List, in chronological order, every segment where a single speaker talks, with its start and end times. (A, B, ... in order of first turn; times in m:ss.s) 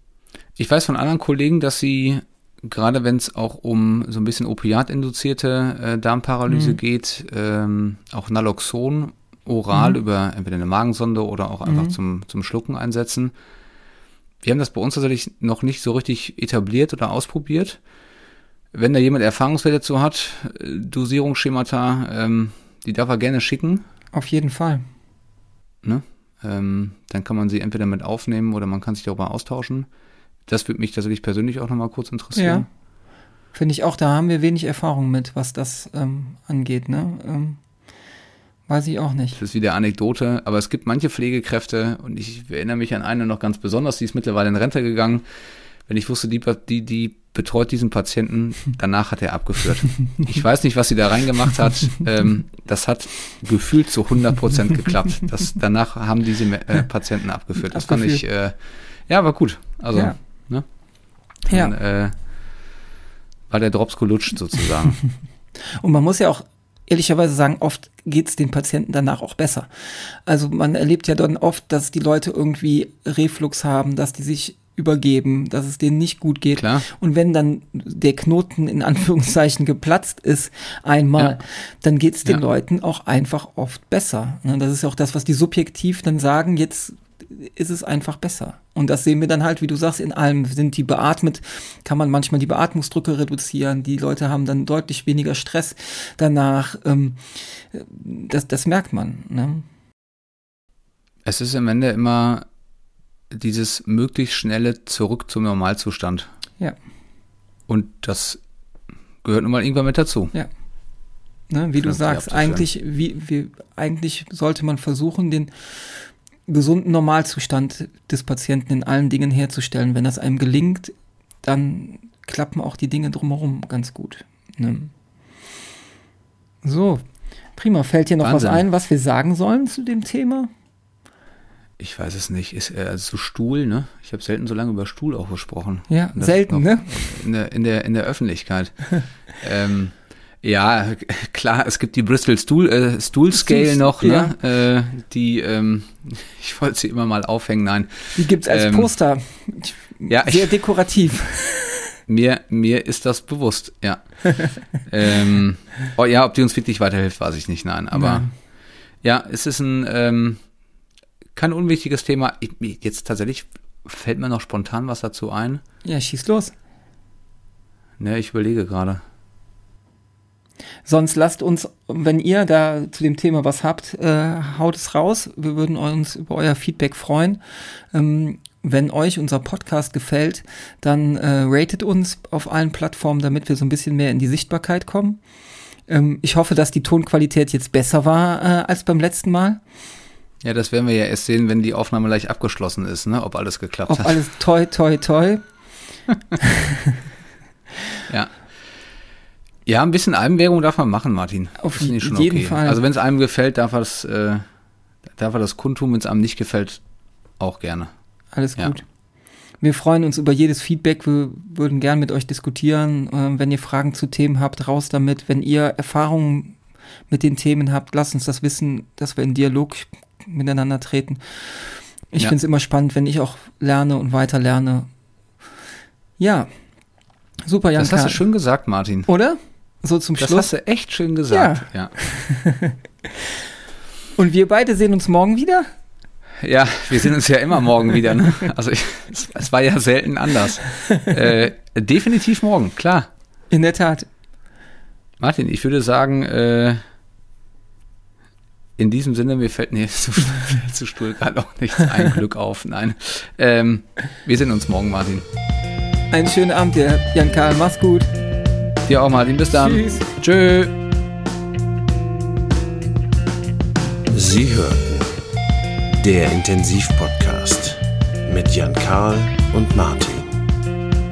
0:00.6-0:13.3 A
0:06.5-0:06.8 B
0:11.7-0:12.0 B
0:14.4-0:17.8 A
0:18.7-0:23.8 A
0:24.1-0:24.9 B
0:25.8-0:29.9 A
0:30.5-0:32.7 A
0:32.4-0:32.7 B
0:33.5-0:37.6 B
0:38.7-0:39.4 B
0:39.4-0:45.2 A
0:45.9-0:58.6 A
0:57.7-0:58.2 B
0:59.1-1:00.6 A
1:01.4-1:02.1 A
1:01.5-1:01.7 B
1:03.5-1:05.0 A
1:05.7-1:39.7 B
1:16.6-1:16.8 A
1:41.2-1:42.5 A
1:43.3-1:46.3 A
1:47.7-1:48.4 A
1:49.2-1:50.3 A
1:51.5-1:55.8 B
1:51.8-1:52.6 A
1:56.5-2:04.9 B
2:06.6-2:07.0 B
2:07.6-2:10.5 B
2:08.2-2:08.6 A
2:11.8-2:28.9 A
2:15.9-2:17.0 B
2:23.3-2:24.3 B
2:28.1-2:31.9 B
2:30.1-2:30.6 A
2:32.1-2:38.3 A
2:37.9-2:38.3 B
2:39.0-2:40.4 A
2:41.4-2:45.6 A
2:45.8-2:46.6 B
2:48.0-2:49.0 A
2:50.9-2:57.4 B
2:57.9-3:05.2 B
3:05.9-3:09.6 B
3:10.4-3:14.2 A
3:13.9-3:15.4 B
3:18.1-3:18.4 A
3:19.7-3:24.4 A
3:21.6-3:22.8 B
3:25.1-3:26.8 A
3:27.4-3:27.9 A
3:28.3-3:28.8 B
3:29.6-3:36.6 B
3:37.1-3:44.9 B
3:46.2-3:46.5 B
3:47.5-3:48.2 B
3:47.8-3:49.1 A
3:49.1-3:50.5 B
3:50.2-3:51.9 A
3:51.3-3:52.8 B
3:54.2-3:55.7 B
3:56.4-4:03.1 A
4:03.5-4:04.1 B
4:05.2-4:06.8 A
4:08.8-4:15.3 A
4:16.1-4:18.1 B
4:18.9-4:20.8 A
4:19.6-4:20.1 B
4:24.1-4:25.2 C
4:25.9-4:30.4 C